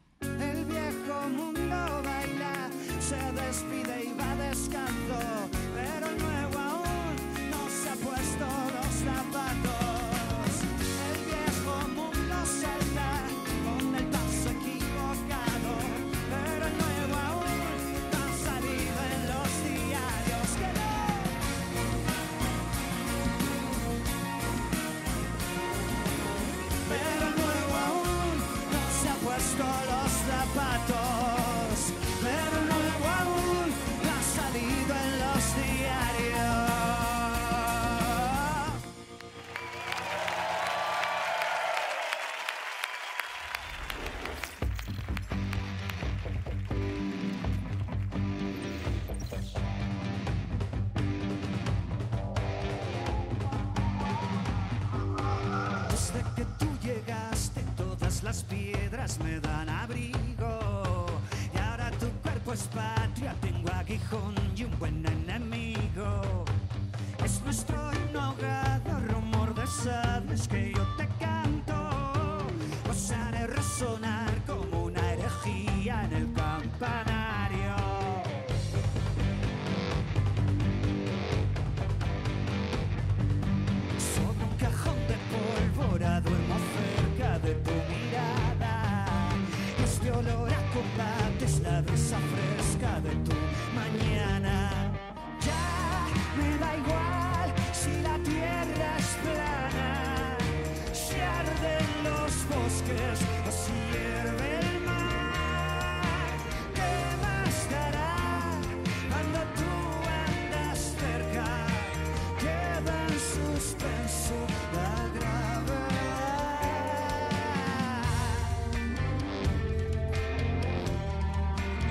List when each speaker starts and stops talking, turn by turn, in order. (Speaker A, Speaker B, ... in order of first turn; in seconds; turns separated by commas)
Speaker A: 0.4-21.4, Speaker A: 26.8-38.7, Speaker A: 55.8-66.5, Speaker A: 67.2-78.3, Speaker A: 84.0-118.5